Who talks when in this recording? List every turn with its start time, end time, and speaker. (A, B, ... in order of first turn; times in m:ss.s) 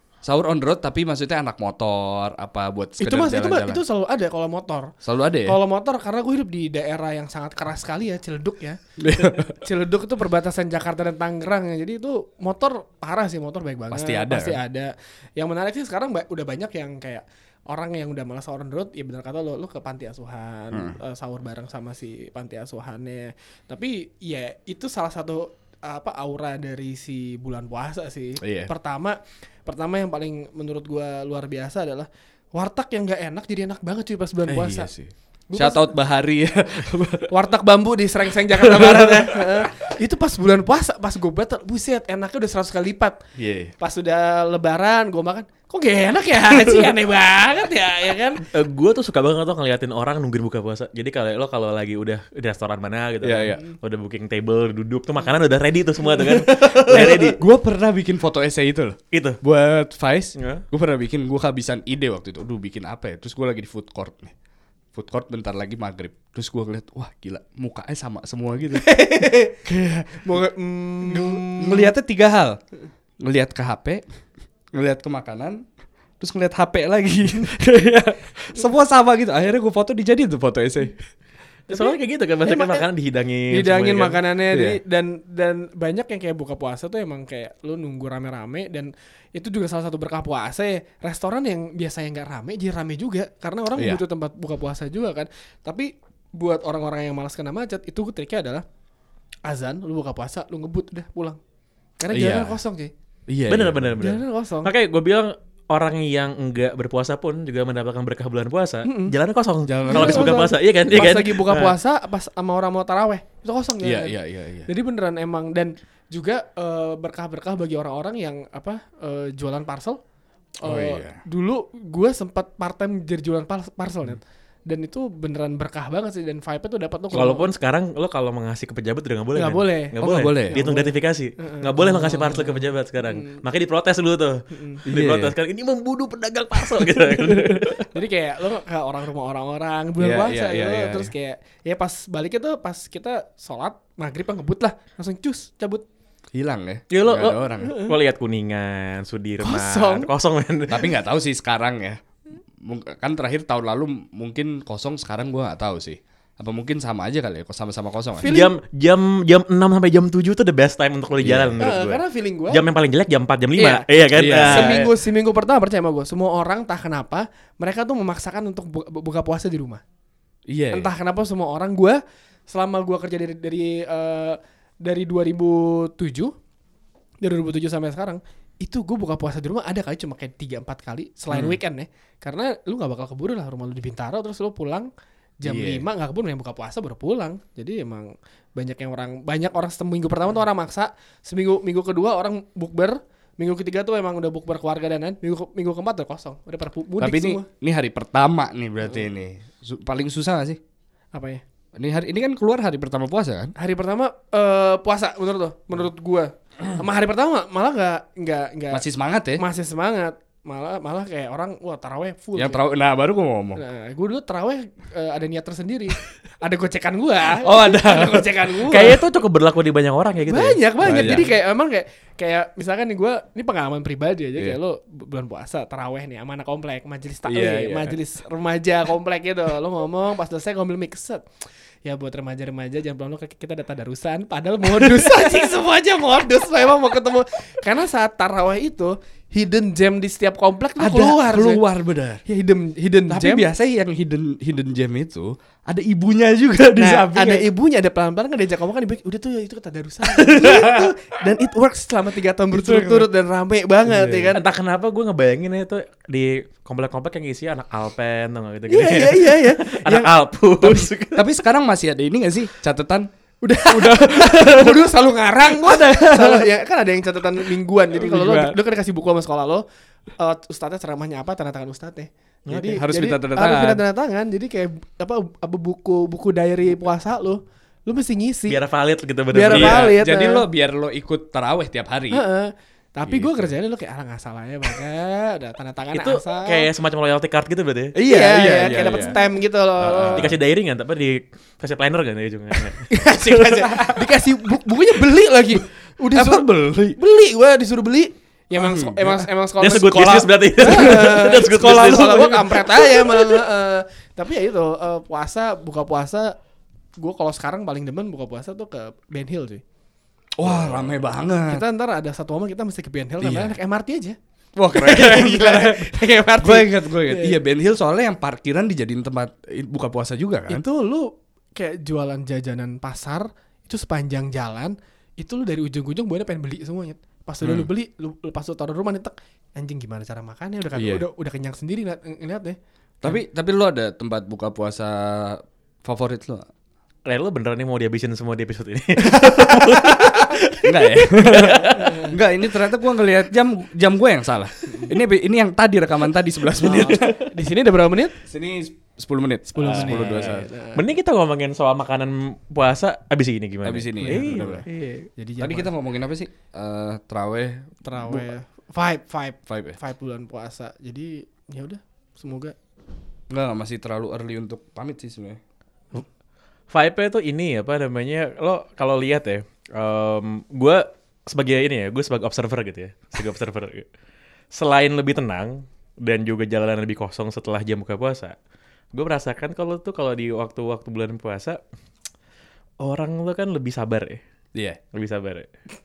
0:00.2-0:03.8 A
0:03.0-0:08.8 B
0:05.0-0:05.6 A
0:09.0-0:09.5 A
0:09.4-0:34.9 B
0:13.9-0:14.6 A
0:20.7-0:21.0 A
0:28.4-0:28.7 A
0:34.5-0:37.3 A
0:35.5-0:35.8 B
0:37.3-0:43.2 B
0:38.5-0:39.7 A
0:43.4-0:43.7 A
0:43.8-0:48.4 B
0:48.5-0:57.4 C
0:53.2-0:53.6 A
0:56.2-1:04.3 A
0:59.1-0:59.4 C
1:00.4-1:00.6 C
1:04.9-1:08.8 A
1:08.7-1:11.9 B
1:11.0-1:12.6 A
1:13.2-1:14.0 A
1:14.7-1:15.6 A
1:16.2-1:21.0 A
1:21.7-1:22.8 B
1:21.7-1:24.2 C
1:23.5-1:38.6 B
1:24.5-1:24.8 A
1:33.8-1:34.0 A
1:39.4-1:41.4 B
1:42.0-1:42.9 B
1:42.1-1:42.6 A
1:43.3-1:44.0 A
1:43.5-1:51.8 C
1:44.0-1:44.7 B
1:48.8-1:49.1 B
1:49.6-1:50.4 A
1:49.9-2:00.0 B
1:53.8-1:54.7 A
2:00.6-2:07.5 B
2:00.6-2:01.2 A
2:07.1-2:17.9 C
2:09.3-2:10.0 B
2:10.0-2:10.6 A
2:10.5-2:13.4 B
2:14.5-2:14.8 B
2:14.8-2:15.4 A
2:17.2-2:17.5 A
2:17.9-2:25.8 B
2:20.0-2:21.1 A
2:26.3-2:27.8 A
2:26.9-2:30.9 C
2:27.6-2:27.9 B
2:29.4-2:30.1 B
2:30.7-2:32.0 A
2:32.6-2:38.3 A
2:38.2-2:38.5 B
2:38.2-2:44.9 C
2:41.2-2:41.6 A
2:41.6-2:42.7 B
2:43.6-2:43.9 B
2:44.2-2:44.8 A
2:44.4-2:49.8 B
2:50.5-2:50.9 A
2:50.7-2:56.3 B
2:57.2-3:04.9 B
3:01.3-3:01.6 A
3:05.4-3:17.5 B
3:05.4-3:05.9 A
3:17.0-3:20.6 A
3:21.1-3:21.4 B
3:21.8-3:23.5 A
3:23.6-3:28.8 B
3:28.7-3:29.4 A
3:29.4-3:32.6 B
3:32.3-3:33.6 A
3:33.6-3:39.0 B
3:37.4-3:39.0 A
3:38.6-3:41.2 C
3:40.2-3:51.2 B
3:40.8-3:41.3 A
3:47.3-3:48.0 A
3:51.8-4:01.6 B
3:54.8-3:55.5 A
4:00.8-4:02.2 A
4:02.2-4:03.5 B
4:03.1-4:07.5 A
4:06.7-4:14.4 B
4:10.3-4:10.8 A
4:12.5-4:13.1 A
4:13.8-4:14.4 A
4:14.3-4:21.3 C
4:18.7-4:20.1 B
4:20.6-4:23.1 A
4:23.4-4:29.6 B
4:23.6-4:24.9 A
4:25.4-4:26.5 A
4:27.9-4:28.6 A
4:30.2-4:38.6 B
4:32.5-4:32.8 C
4:32.5-4:33.8 A
4:38.5-4:39.9 C
4:39.3-4:40.4 B
4:39.4-4:42.2 A
4:42.1-4:46.7 B
4:43.0-4:43.5 A
4:45.9-4:48.0 C
4:47.9-4:49.2 A
4:48.0-4:50.3 B
4:49.8-4:50.4 A
4:50.1-4:52.9 C
4:52.9-5:06.3 B
4:53.2-4:54.1 A
4:54.9-4:57.0 A
4:58.6-4:59.3 A
4:59.6-5:02.8 C
5:00.6-5:03.4 A
5:07.0-5:09.6 B
5:10.4-5:11.6 A
5:10.4-5:10.9 C
5:11.3-5:14.2 B
5:13.2-5:13.5 A
5:14.6-5:20.6 A
5:14.7-5:17.4 B
5:20.5-5:32.6 B
5:27.4-5:27.7 A
5:30.7-5:31.0 A
5:33.0-5:36.5 A
5:37.0-5:42.2 C
5:40.6-5:47.3 A
5:41.8-5:42.0 B
5:44.7-5:44.9 B
5:46.6-5:48.2 B
5:48.2-5:50.5 A
5:49.5-5:50.8 B
5:49.6-5:54.9 C
5:53.6-5:54.6 A
5:54.0-5:55.7 B
5:55.4-5:58.3 A
5:57.8-6:02.5 B
5:59.5-5:59.8 A
6:03.3-6:05.4 A
6:06.7-6:13.8 C
6:14.5-6:18.3 C
6:18.9-6:21.6 C
6:22.8-6:24.2 C
6:24.9-6:25.5 C